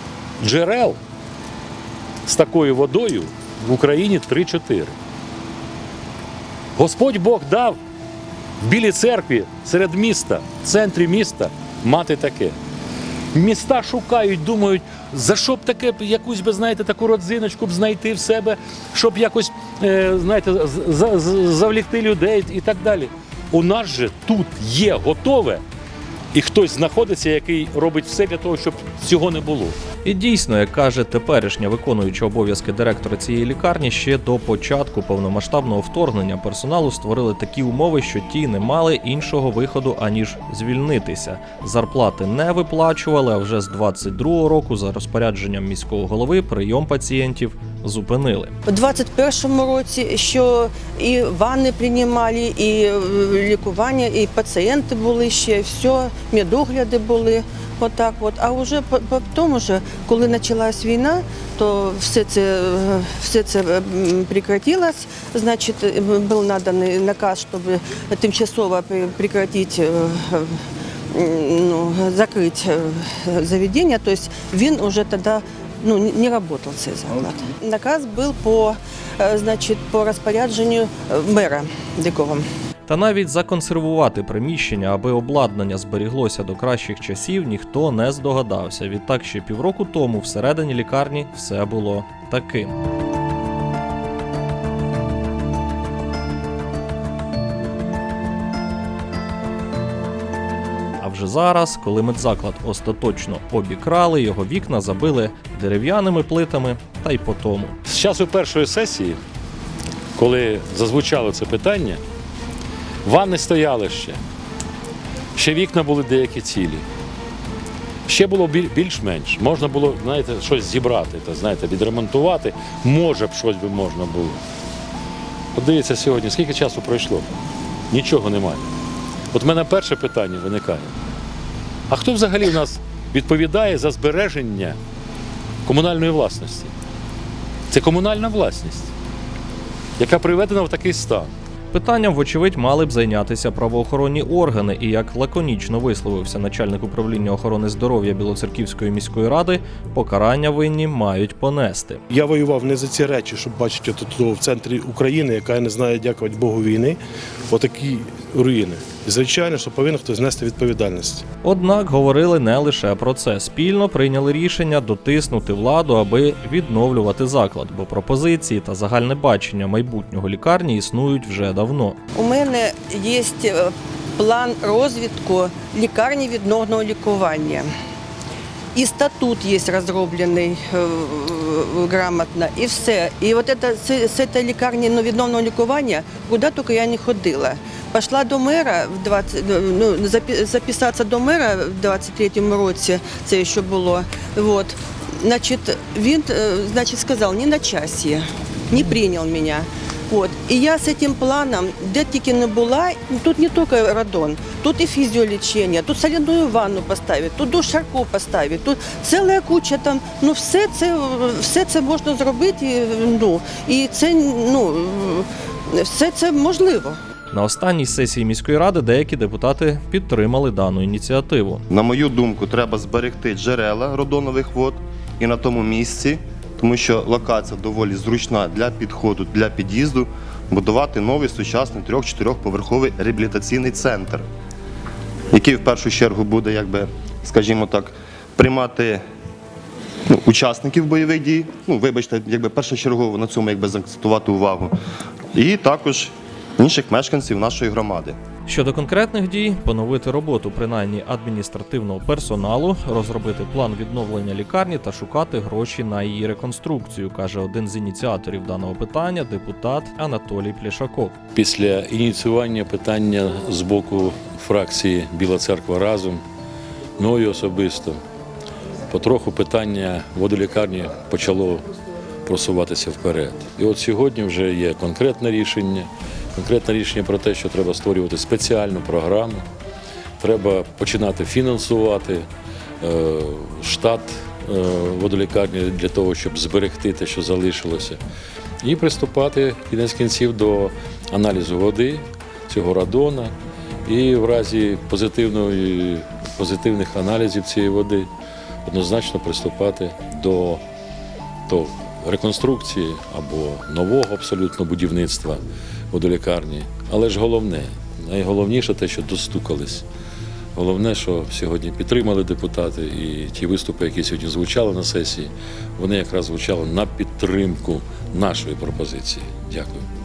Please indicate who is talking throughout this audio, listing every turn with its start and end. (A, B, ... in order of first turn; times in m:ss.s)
0:00.4-0:01.0 A
0:02.2-0:04.9 A
0:06.8-0:07.8 A
0:08.6-0:12.6 A
0:13.3-0:25.6 A
0:26.3-0:29.8 A
0:30.0-0:48.5 B
0:48.6-1:10.5 C
1:11.1-1:22.4 C
1:22.9-1:32.7 B
1:41.0-1:47.8 B
1:47.8-1:49.2 A
1:50.2-1:52.0 A
1:53.0-1:54.2 A
1:55.4-1:56.8 A
1:58.1-2:04.4 A
2:05.5-2:07.3 A
2:07.9-2:08.7 A
2:09.3-2:10.9 A
2:11.9-2:14.8 A
2:15.6-2:16.7 A
2:17.7-2:18.9 A
2:20.0-2:21.3 A
2:21.7-2:32.0 B
2:32.1-2:41.2 D
2:41.4-2:52.0 B
2:52.1-2:57.7 C
2:58.7-3:37.0 C
3:37.3-3:41.6 B
3:41.7-3:54.2 E
3:55.3-3:59.0 E
4:00.1-4:04.7 E
4:05.3-4:08.2 E
4:08.5-4:21.2 B
4:21.3-4:26.2 A
4:27.0-4:28.0 A
4:28.9-4:31.6 A
4:32.2-4:39.4 A
4:40.2-4:42.3 A
4:42.8-4:48.0 A
4:48.6-4:53.3 A
4:53.8-4:58.1 A
4:58.6-5:00.6 A
5:01.5-5:09.8 A
5:10.5-5:19.8 A